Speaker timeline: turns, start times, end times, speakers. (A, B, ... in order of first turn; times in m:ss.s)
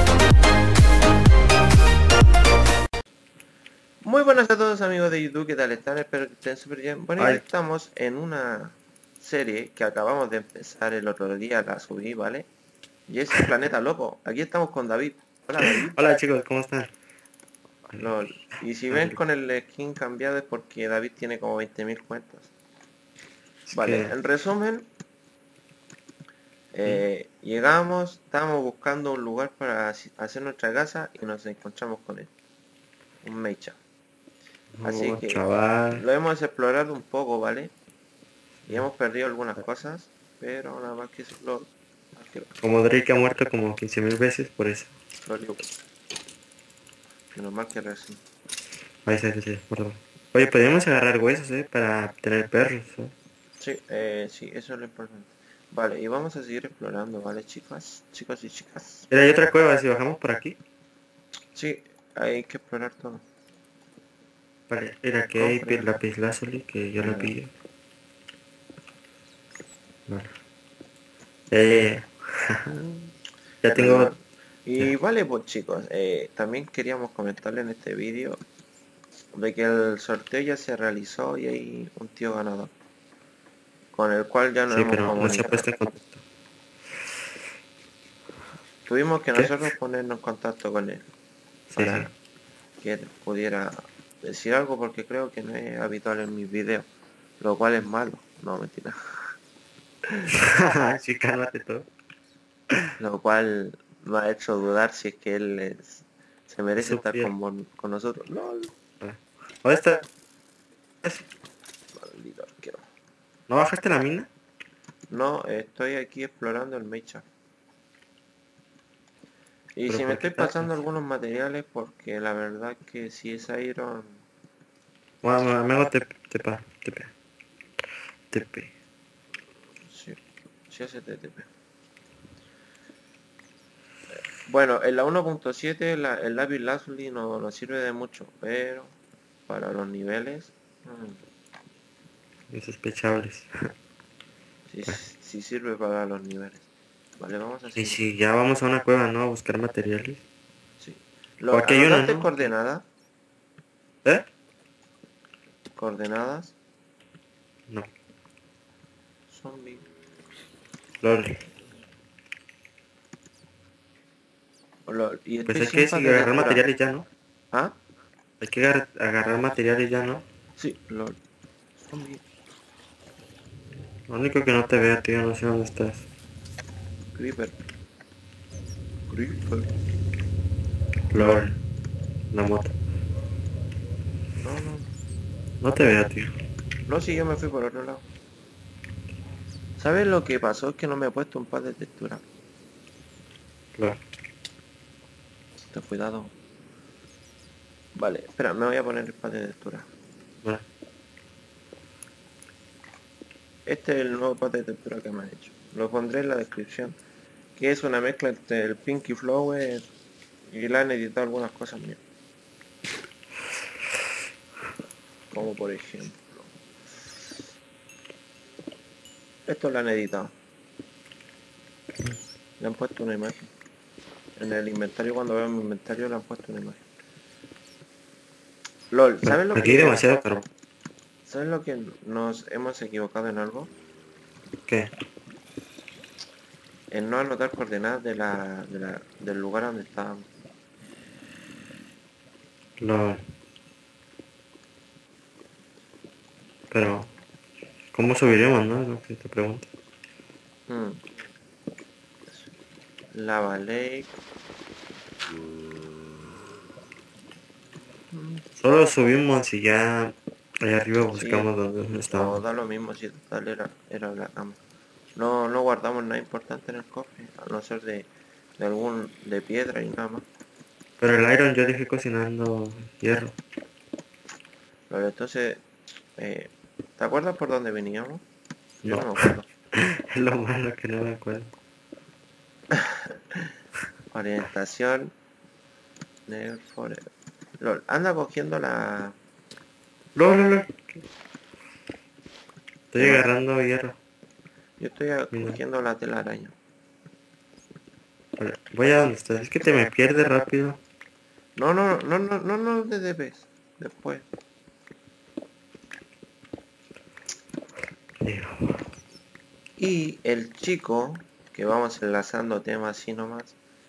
0:04.0-0:12.5 A
0:07.2-0:07.4 B
0:13.1-0:16.0 A
0:15.6-0:16.9 B
0:17.9-0:22.5 A
0:18.9-0:19.2 B
0:23.6-0:24.1 B
0:23.7-0:24.9 A
0:26.7-0:32.3 A
0:33.2-0:33.8 A
0:34.8-0:36.0 B
0:34.8-0:35.4 A
0:35.9-0:37.7 A
0:38.7-0:42.5 A
0:42.6-0:44.9 B
0:45.2-0:45.6 A
0:47.3-0:48.2 A
0:49.0-0:53.1 B
0:53.6-0:59.1 A
0:59.1-1:00.6 B
1:01.5-1:03.2 A
1:04.7-1:07.5 B
1:05.4-1:05.9 A
1:07.0-1:07.3 A
1:10.1-1:10.3 B
1:11.5-1:14.1 B
1:13.7-1:18.4 A
1:19.3-1:22.7 A
1:23.9-1:25.7 A
1:24.7-1:26.2 B
1:28.8-1:31.0 A
1:31.7-1:32.1 B
1:31.8-1:32.1 A
1:32.8-1:36.9 A
1:37.4-1:39.0 A
1:40.3-1:41.9 B
1:43.0-1:48.7 A
1:46.8-1:47.3 B
1:49.0-1:50.0 B
1:51.9-1:52.8 A
1:53.5-1:54.3 B
1:55.1-1:57.2 A
1:59.8-2:04.2 A
1:59.9-2:00.8 B
2:05.2-2:07.1 B
2:08.3-2:08.7 B
2:09.9-2:10.2 A
2:10.7-2:11.5 A
2:14.4-2:18.9 A
2:19.5-2:21.2 A
2:22.5-2:23.7 B
2:24.7-2:26.6 A
2:27.2-2:28.0 A
2:27.8-2:30.2 B
2:30.8-2:32.8 A
2:31.5-2:32.5 B
2:35.8-2:36.5 A
2:39.3-2:39.8 A
2:41.0-2:41.4 B
2:44.9-2:46.6 A
2:45.4-2:47.1 B
2:47.5-2:47.8 A
2:48.4-2:50.2 B
2:50.6-2:51.2 A
2:51.8-2:52.2 A
2:54.1-2:56.0 B
2:57.1-2:57.6 A
2:59.1-2:59.7 A
3:01.1-3:01.6 B
3:01.2-3:01.5 A
3:02.3-3:02.7 B
3:04.4-3:04.9 A
3:05.6-3:06.3 B
3:06.9-3:08.0 A
3:09.8-3:12.2 A
3:13.7-3:14.0 B
3:15.7-3:16.3 A
3:18.0-3:19.9 A
3:23.6-3:27.0 A
3:27.6-3:29.8 A
3:30.5-3:32.0 A
3:35.3-3:36.5 A
3:39.5-3:40.3 A
3:42.6-3:43.5 A
3:44.4-3:46.8 A
3:48.9-3:50.0 A
3:49.2-3:50.4 B
3:51.3-3:53.7 A
3:56.9-4:00.3 A
4:02.8-4:03.2 B
4:06.7-4:07.1 B
4:07.9-4:09.7 B
4:10.7-4:11.0 A
4:13.1-4:14.1 A
4:18.1-4:18.4 A
4:18.6-4:22.4 B
4:21.1-4:21.5 A
4:22.1-4:24.6 A
4:25.2-4:30.2 A
4:31.0-4:33.3 B
4:34.9-4:35.6 A
4:36.2-4:38.2 A
4:38.8-4:39.5 A
4:38.8-4:41.5 B
4:42.8-4:43.4 A
4:44.1-4:45.1 A
4:46.3-4:47.0 A
4:47.6-4:49.2 A
4:50.2-4:51.0 B
4:52.9-4:54.0 B
4:53.0-4:53.3 A
4:54.8-4:56.5 A
4:55.3-4:55.6 B
4:58.4-5:00.8 B
5:01.6-5:04.2 A
5:08.2-5:08.9 B
5:09.8-5:13.6 A